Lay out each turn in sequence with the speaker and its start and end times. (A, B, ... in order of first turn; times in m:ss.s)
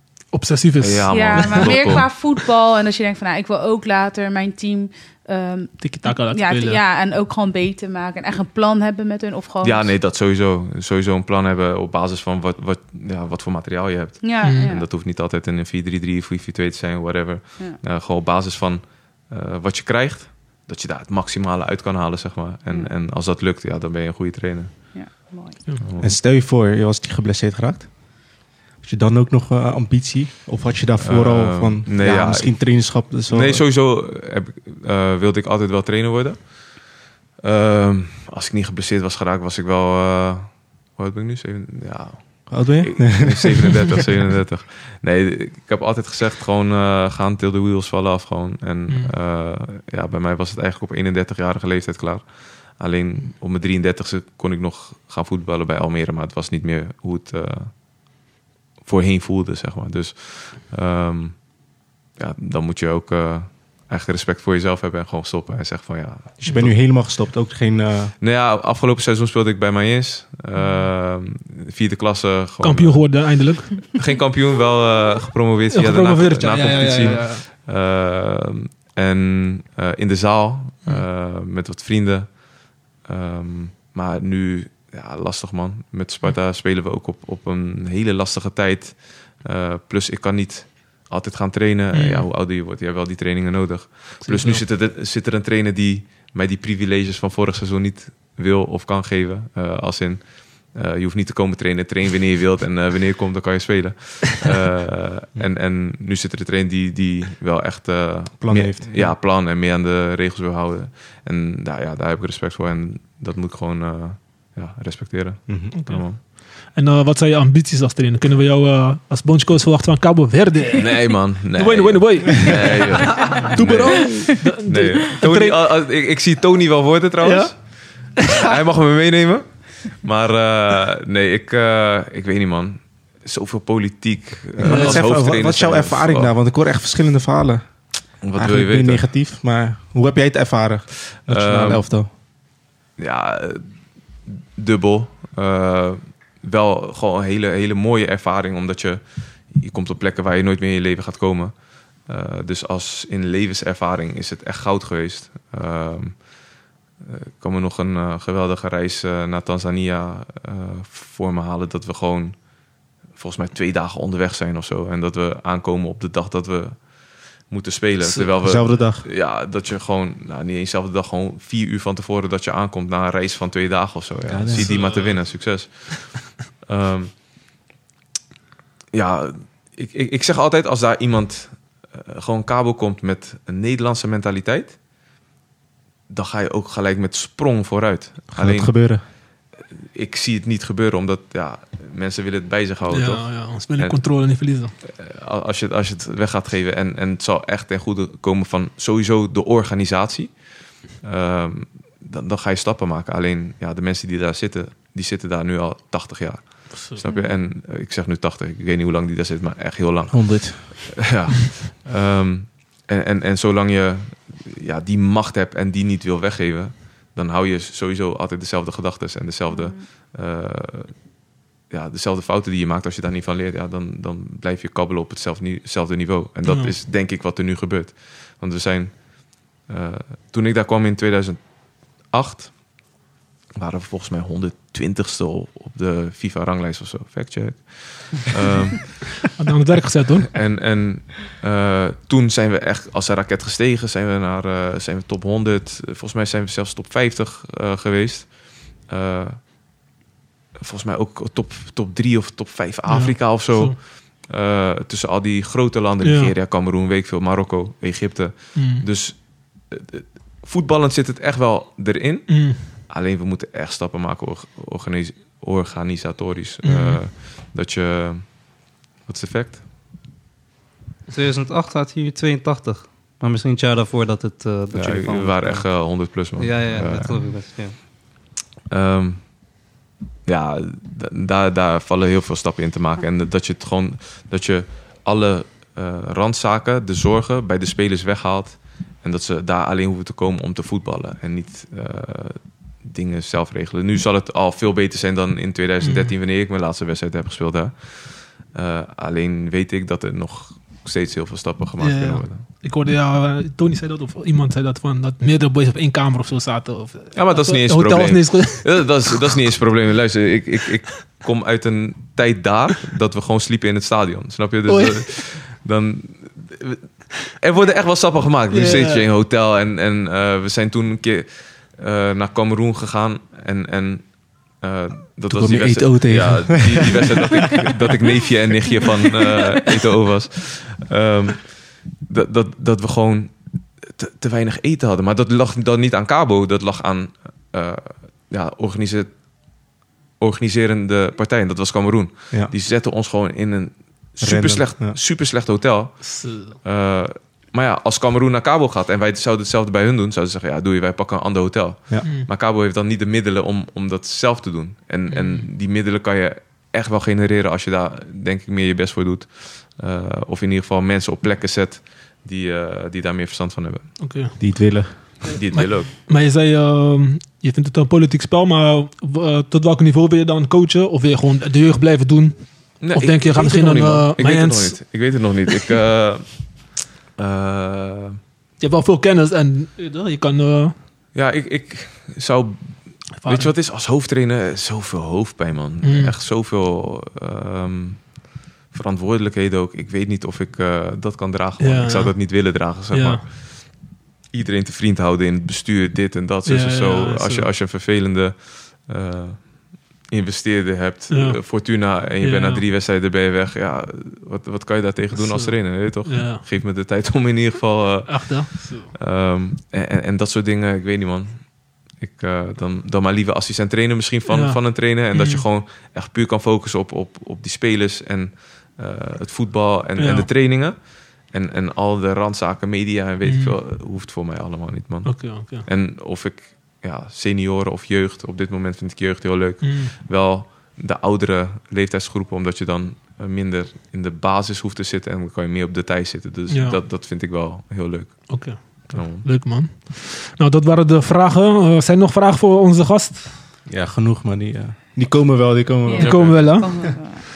0:00.3-0:02.1 A
0:00.8-0:02.1 B
0:01.1-0:09.9 C
0:05.8-0:06.8 A
0:09.6-0:24.9 B
0:14.2-0:14.8 C
0:14.4-0:14.7 A
0:24.9-0:25.6 C
0:25.8-0:26.1 B
0:26.0-0:27.9 D
0:28.8-0:33.6 D
0:31.0-0:36.5 B
0:37.4-0:57.7 B
0:42.5-0:44.0 D
0:48.9-0:49.1 A
0:58.8-1:01.4 B
1:02.2-1:06.7 B
1:06.4-1:08.1 D
1:06.4-1:06.7 A
1:08.2-1:22.4 B
1:10.6-1:10.8 A
1:12.6-1:13.8 A
1:15.7-1:17.4 A
1:23.0-1:56.2 B
1:31.9-1:32.2 A
1:34.2-1:34.6 A
1:48.4-1:49.1 D
1:55.5-1:55.7 D
1:55.7-2:05.6 A
2:00.8-2:16.3 B
2:07.2-2:07.5 A
2:08.2-2:08.4 A
2:14.6-2:17.6 D
2:14.6-2:15.0 A
2:18.2-2:19.0 B
2:18.3-2:22.1 D
2:21.3-2:21.8 B
2:23.0-2:23.6 B
2:24.2-2:31.5 B
2:32.0-2:36.2 B
2:37.0-2:42.4 B
2:43.1-2:57.2 B
2:48.0-2:49.0 D
2:54.3-2:54.9 D
2:54.5-2:55.3 A
2:58.9-3:04.8 B
3:06.1-3:09.0 B
3:08.3-3:09.0 D
3:09.8-3:14.0 B
3:12.9-3:14.7 A
3:14.8-3:41.0 B
3:26.7-3:27.0 A
3:27.0-3:27.3 C
3:30.1-3:30.9 D
3:39.5-3:39.8 C
3:41.7-3:49.1 B
3:46.4-3:46.7 A
3:49.6-3:51.4 B
3:52.1-3:52.6 B
3:53.6-3:59.3 B
3:59.3-4:00.3 A
4:00.3-4:09.4 B
4:10.6-4:29.6 B
4:12.9-4:13.8 A
4:16.0-4:16.3 A
4:18.6-4:18.8 A
4:22.3-4:22.6 A
4:26.6-4:27.0 A
4:31.1-4:35.7 E
4:34.7-4:37.4 B
4:36.4-4:37.8 E
4:38.7-4:39.3 B
4:40.2-5:02.4 B
4:55.8-4:56.1 A
5:01.8-5:09.0 A
5:07.1-5:39.1 B
5:14.7-5:15.2 A
5:18.5-5:19.0 A
5:25.3-5:27.7 D
5:40.2-6:04.0 B
5:44.2-5:45.0 D
5:46.0-5:46.6 A
5:55.1-5:55.5 A
6:04.0-6:14.8 A
6:04.4-6:05.2 D
6:05.3-6:05.9 B
6:12.8-6:16.5 B
6:17.2-6:18.2 B
6:18.6-6:20.7 A
6:21.1-7:19.3 B
6:23.2-6:23.5 A
6:25.8-6:26.1 A
6:31.6-6:33.2 A
6:36.4-6:37.5 A
6:41.1-6:41.6 A
6:42.2-6:42.6 A
6:45.1-6:46.4 A
6:48.1-6:48.9 A
6:54.3-6:55.4 A
7:00.0-7:00.3 A
7:03.2-7:03.5 A
7:05.0-7:05.6 A
7:09.6-7:09.9 A
7:16.5-7:16.8 A
7:18.3-7:23.3 A
7:23.7-7:26.9 D
7:25.8-7:27.2 C
7:26.0-7:26.3 B
7:26.0-7:27.0 A